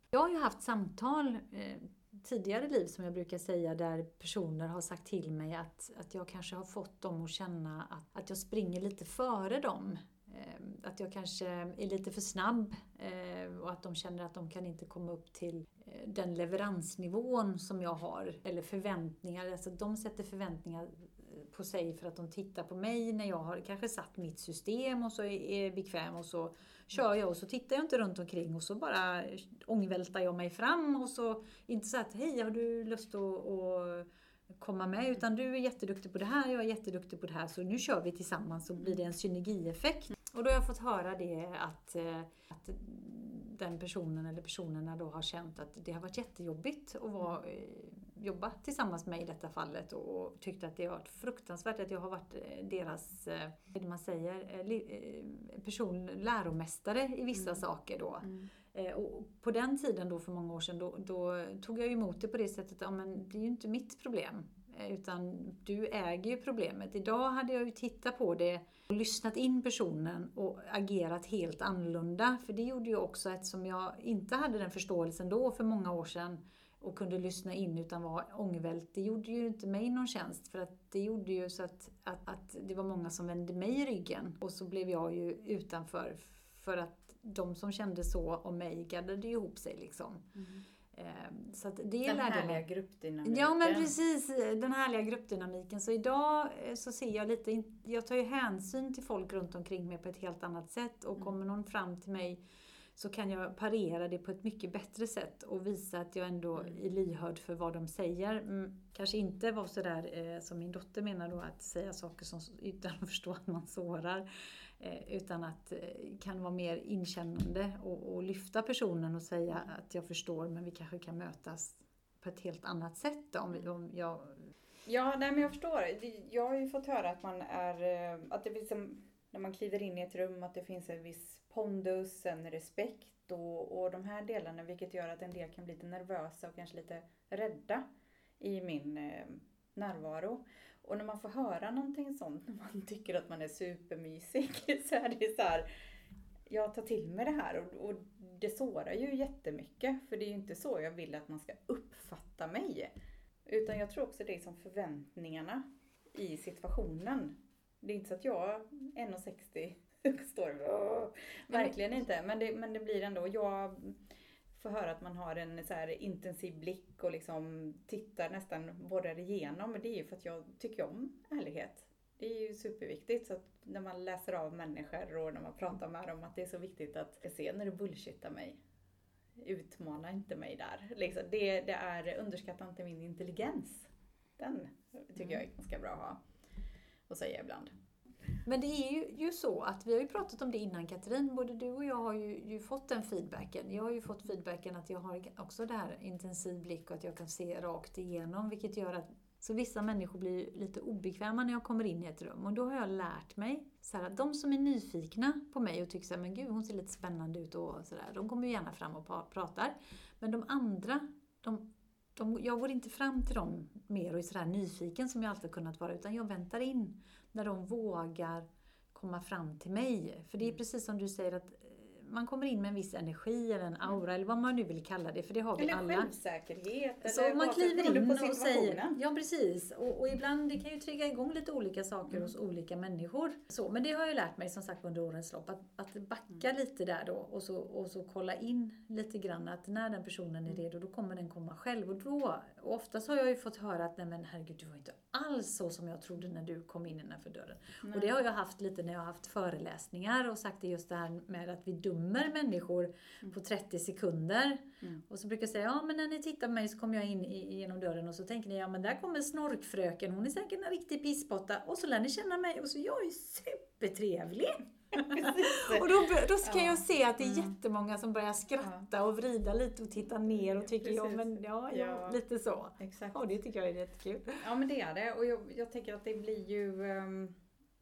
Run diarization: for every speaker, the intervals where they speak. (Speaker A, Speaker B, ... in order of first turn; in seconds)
Speaker A: 0.1-34.1, 34.6-90.3, 90.9-92.6, 93.2-102.4, 103.0-114.3, 114.8-124.4, 161.5-161.8, 188.4-226.1, 227.0-274.4
Speaker B: 57.3-57.6, 58.2-58.5, 90.4-90.6, 92.1-93.9, 124.9-137.8, 138.4-145.7, 146.5-152.9, 153.5-164.0, 164.5-178.6, 179.4-186.2, 187.1-187.7, 225.6-229.0, 247.8-248.2, 264.9-267.5, 268.6-268.9, 270.4-272.2, 272.8-273.3, 274.4-277.4